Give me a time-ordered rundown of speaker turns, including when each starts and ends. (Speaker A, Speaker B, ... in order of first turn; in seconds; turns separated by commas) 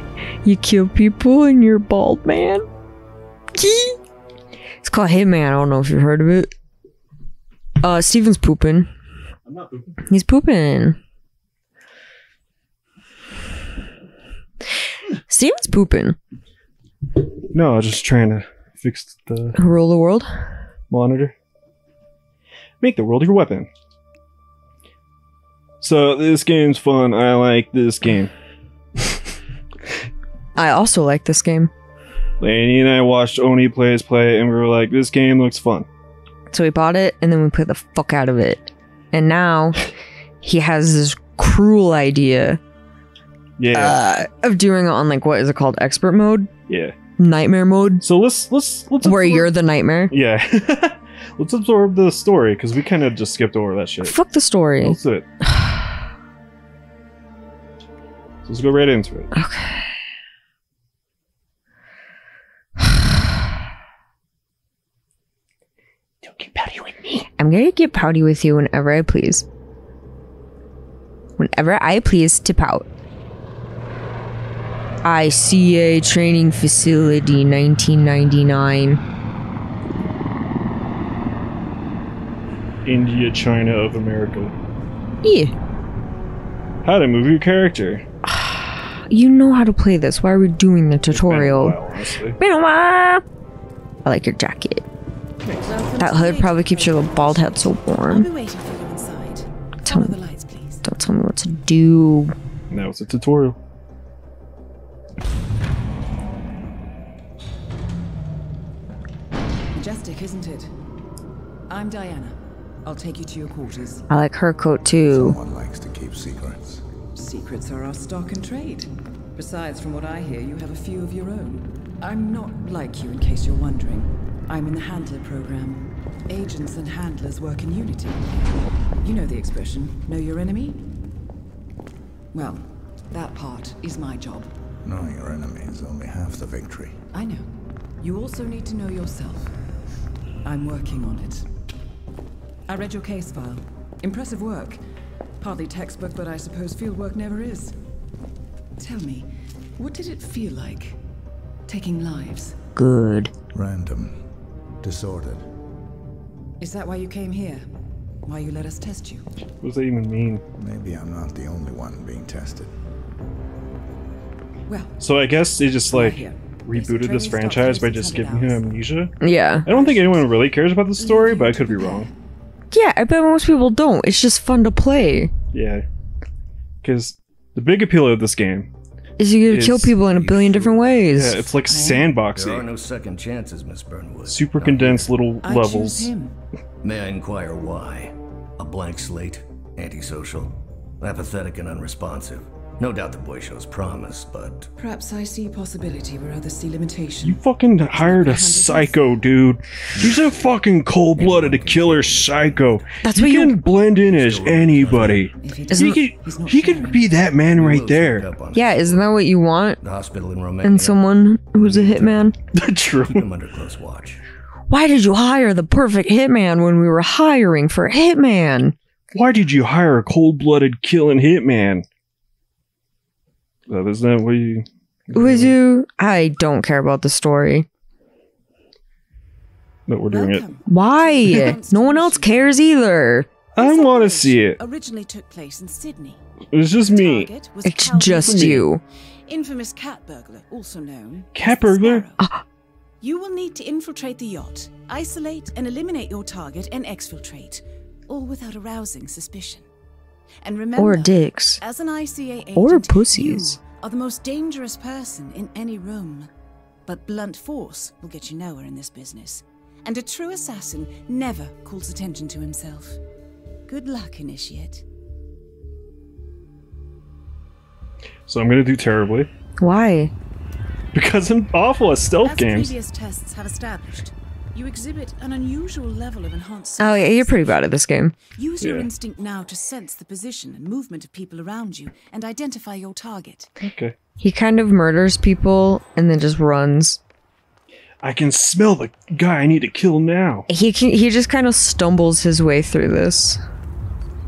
Speaker A: 0.4-2.6, Speaker A: 3.5-4.0, Speaker A: 4.8-6.5, Speaker A: 7.8-8.9, Speaker B: 9.5-9.9, Speaker A: 10.1-11.0, Speaker A: 15.3-16.2, Speaker B: 17.5-19.6, Speaker A: 19.6-20.6, Speaker B: 20.9-21.4, Speaker B: 22.8-23.7, Speaker B: 25.8-28.3, Speaker A: 30.6-31.7, Speaker B: 32.4-35.9, Speaker A: 36.5-39.9, Speaker A: 40.4-42.6, Speaker B: 43.6-44.0, Speaker A: 43.7-46.5, Speaker B: 46.7-47.0, Speaker A: 47.2-48.0, Speaker B: 48.0-49.5, Speaker A: 49.0-50.1, Speaker B: 50.1-54.2, Speaker A: 54.0-56.0, Speaker B: 54.8-55.3, Speaker B: 58.5-59.3, Speaker A: 59.3-60.0, Speaker B: 66.2-67.3, Speaker A: 67.4-69.5, Speaker A: 71.4-72.9, Speaker A: 75.0-79.0, Speaker B: 82.8-84.5, Speaker A: 85.2-85.5, Speaker B: 86.8-88.0, Speaker A: 88.3-91.8, Speaker B: 91.1-92.4, Speaker A: 92.4-93.2, Speaker A: 94.0-94.8, Speaker B: 95.4-95.8, Speaker C: 95.6-100.9, Speaker A: 96.0-98.3, Speaker A: 99.8-100.1, Speaker A: 100.8-102.3, Speaker B: 102.7-103.6, Speaker C: 109.7-110.7, Speaker C: 111.7-114.1, Speaker A: 114.1-115.4, Speaker D: 115.1-116.8, Speaker C: 117.1-128.4, Speaker C: 129.0-130.9, Speaker C: 132.3-134.5, Speaker D: 134.8-137.0, Speaker C: 137.1-139.5, Speaker C: 140.4-141.5, Speaker C: 142.7-144.8, Speaker C: 145.4-147.8, Speaker C: 148.8-151.0, Speaker C: 151.7-152.6, Speaker A: 152.8-153.3, Speaker D: 153.5-154.2, Speaker D: 154.8-155.5, Speaker C: 156.6-157.7, Speaker C: 158.3-159.3, Speaker B: 159.6-160.4, Speaker D: 160.6-162.7, Speaker C: 164.7-165.0, Speaker B: 165.0-169.1, Speaker C: 165.8-168.8, Speaker A: 169.2-169.7, Speaker B: 169.7-172.1, Speaker C: 169.7-170.4, Speaker C: 170.9-172.2, Speaker A: 172.7-175.3, Speaker B: 175.5-175.9, Speaker B: 176.8-178.7, Speaker A: 179.2-181.5, Speaker B: 179.5-179.9, Speaker E: 179.9-185.2, Speaker B: 181.1-182.7, Speaker C: 181.7-182.2, Speaker B: 184.2-186.1, Speaker C: 185.4-186.4, Speaker E: 186.8-194.7, Speaker C: 194.8-199.1, Speaker B: 197.2-208.3, Speaker E: 199.9-200.6, Speaker E: 201.2-203.0, Speaker A: 203.0-203.6, Speaker E: 203.9-205.3, Speaker C: 205.4-207.1, Speaker A: 205.7-206.0, Speaker E: 207.4-209.2, Speaker A: 208.5-209.8, Speaker E: 209.8-212.4, Speaker A: 210.6-212.3, Speaker B: 212.5-213.3, Speaker E: 213.0-214.2, Speaker A: 214.7-218.8, Speaker B: 219.1-221.9, Speaker B: 223.7-225.6, Speaker A: 225.1-227.7, Speaker B: 229.9-230.5, Speaker C: 230.1-232.7, Speaker A: 230.7-233.3, Speaker B: 233.6-234.6, Speaker C: 233.6-236.2, Speaker B: 236.5-237.3, Speaker C: 236.8-238.7, Speaker A: 237.7-238.8, Speaker B: 238.1-238.7, Speaker C: 239.3-242.3, Speaker B: 241.3-242.1, Speaker C: 243.0-249.7, Speaker C: 250.4-256.3, Speaker A: 250.8-251.6, Speaker A: 252.6-253.6, Speaker C: 256.9-263.0, Speaker C: 263.7-264.8, Speaker B: 268.3-269.3, Speaker A: 269.6-270.1, Speaker B: 270.9-272.7, Speaker C: 272.2-283.5, Speaker A: 276.8-278.2, Speaker B: 278.6-278.9, Speaker B: 283.6-284.0, Speaker A: 284.2-287.0, Speaker B: 288.0-290.5, Speaker A: 290.5-293.4